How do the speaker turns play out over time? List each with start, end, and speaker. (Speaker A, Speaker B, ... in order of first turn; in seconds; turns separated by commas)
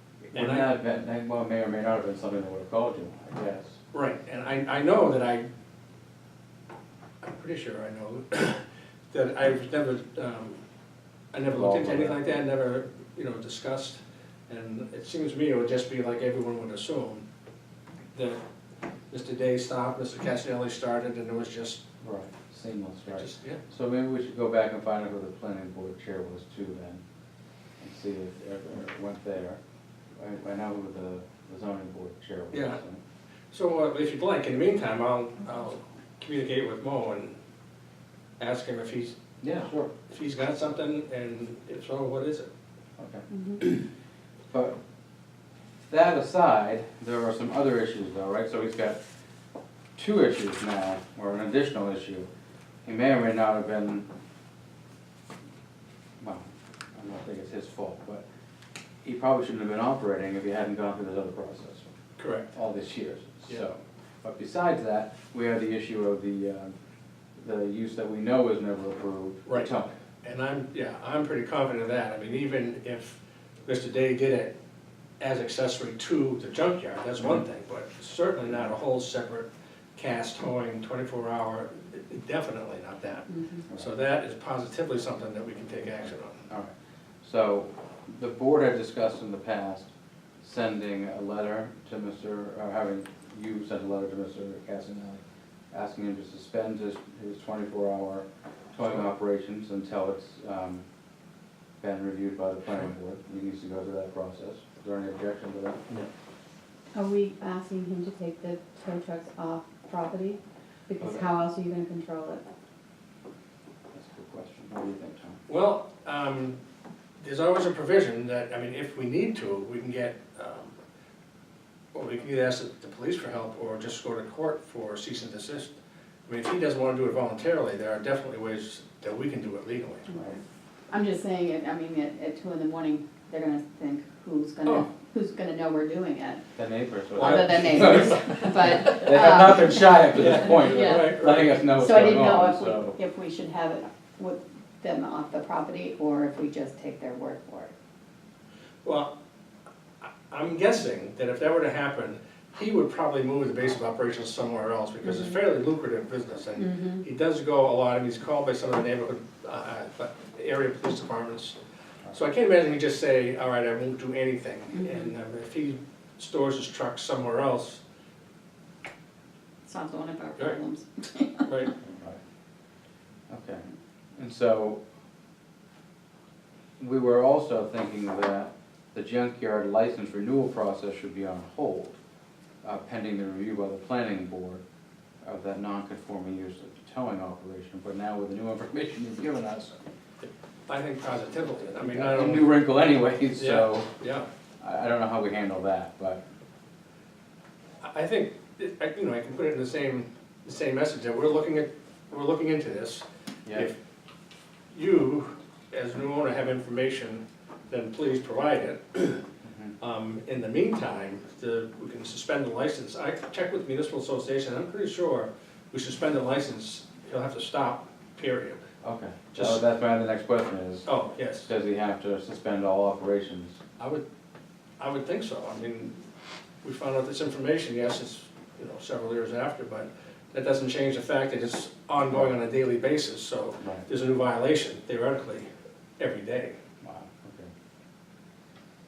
Speaker A: 0.3-3.8, Speaker B: 0.3-0.7, Speaker B: 3.9-5.5, Speaker B: 7.2-10.6, Speaker B: 11.3-17.2, Speaker A: 11.4-12.3, Speaker B: 18.1-18.4, Speaker B: 19.1-21.9, Speaker A: 22.0-27.0, Speaker B: 23.1-23.6, Speaker A: 27.8-29.6, Speaker A: 30.2-33.0, Speaker B: 32.5-32.8, Speaker B: 33.5-37.4, Speaker B: 38.4-42.5, Speaker A: 39.4-39.9, Speaker A: 43.0-43.9, Speaker C: 43.3-43.6, Speaker A: 44.5-44.8, Speaker A: 45.9-49.0, Speaker A: 50.0-52.3, Speaker A: 52.8-54.1, Speaker A: 56.2-58.2, Speaker A: 59.0-61.9, Speaker B: 62.2-62.6, Speaker A: 62.5-66.7, Speaker A: 67.3-70.0, Speaker B: 69.5-74.5, Speaker B: 75.2-86.4, Speaker C: 83.3-83.6, Speaker A: 87.2-89.9, Speaker A: 90.4-100.8, Speaker A: 101.8-105.9, Speaker C: 106.9-112.4, Speaker A: 111.0-111.3, Speaker A: 113.9-115.4, Speaker B: 115.5-116.6, Speaker B: 117.2-120.8, Speaker B: 121.9-125.7, Speaker B: 126.2-130.1, Speaker A: 130.1-130.4, Speaker C: 130.9-136.4, Speaker A: 136.6-142.9, Speaker B: 137.2-138.4, Speaker C: 137.2-147.7, Speaker B: 140.1-142.1, Speaker B: 148.8-149.1, Speaker B: 150.3-161.6, Speaker C: 155.0-155.3, Speaker C: 156.6-157.0, Speaker B: 162.1-167.8, Speaker C: 164.8-165.1, Speaker C: 169.7-171.5, Speaker B: 171.5-171.7, Speaker A: 171.8-172.2, Speaker A: 173.3-174.8, Speaker A: 176.8-181.9, Speaker A: 182.6-184.6, Speaker A: 185.2-189.8, Speaker B: 190.7-192.6, Speaker A: 191.8-193.9, Speaker B: 193.3-194.3, Speaker A: 194.6-196.2, Speaker B: 197.8-203.8, Speaker A: 203.4-203.7, Speaker B: 204.7-209.2, Speaker A: 209.4-209.7, Speaker B: 209.8-218.6, Speaker A: 218.8-220.9, Speaker B: 219.3-219.6, Speaker B: 220.8-221.5, Speaker A: 221.4-223.6, Speaker B: 223.8-224.0, Speaker B: 224.8-226.0, Speaker B: 226.6-236.6, Speaker A: 233.6-233.8, Speaker A: 236.8-237.5